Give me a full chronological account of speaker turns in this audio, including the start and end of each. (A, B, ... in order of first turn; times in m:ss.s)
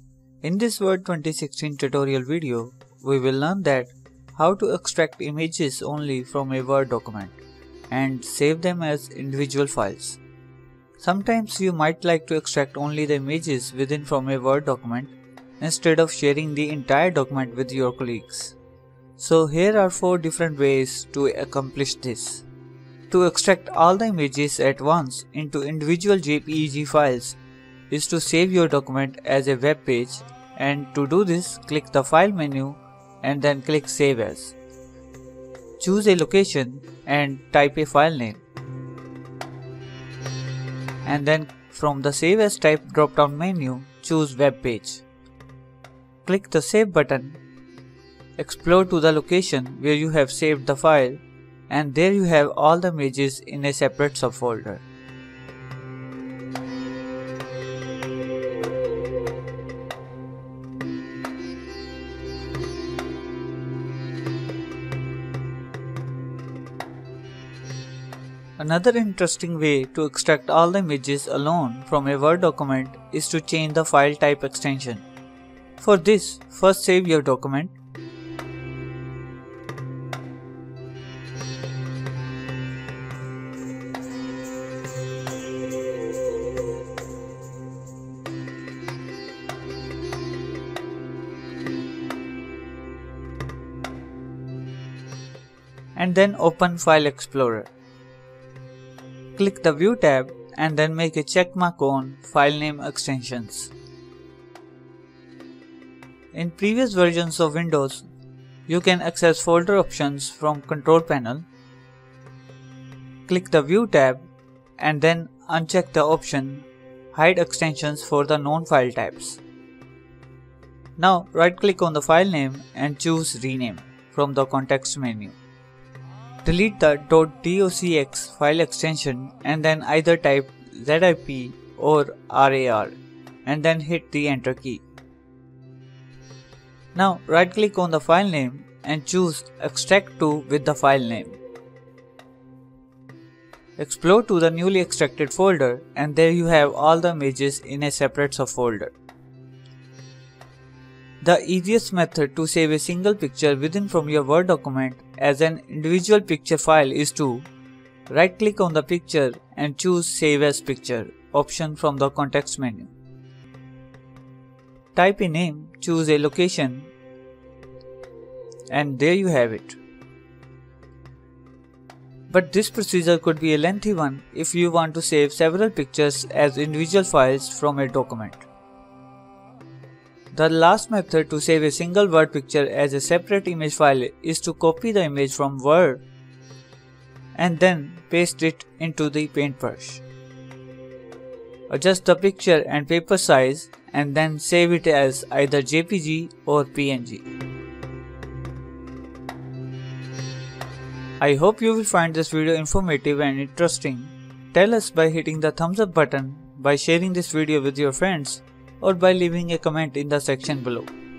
0:00.4-0:10.2 A
0:11.0-0:18.6 A
0:19.2-0:22.4 A
0:23.1-0:27.4 A
0:27.9-0:34.6 A
0:35.8-0:38.4 A
0:41.0-0:45.0 A
0:46.2-0:47.4 A
0:48.4-0:54.8 A
1:08.6-1:15.0 A
1:15.8-1:17.8 A
1:36.0-1:37.7 A
1:39.4-1:43.7 A
1:46.3-1:48.1 A
1:48.7-1:51.5 A
1:53.3-1:59.4 A
2:01.0-2:05.4 A
2:06.4-2:14.8 A
2:16.9-2:21.4 A
2:23.8-2:29.0 A
2:31.2-2:37.5 A
2:38.1-2:42.9 A
2:45.0-2:46.9 A
2:48.7-2:49.8 A
2:52.3-2:58.4 A
3:00.3-3:06.0 A
3:07.4-3:10.0 A
3:11.7-3:17.2 A
3:21.2-3:30.9 A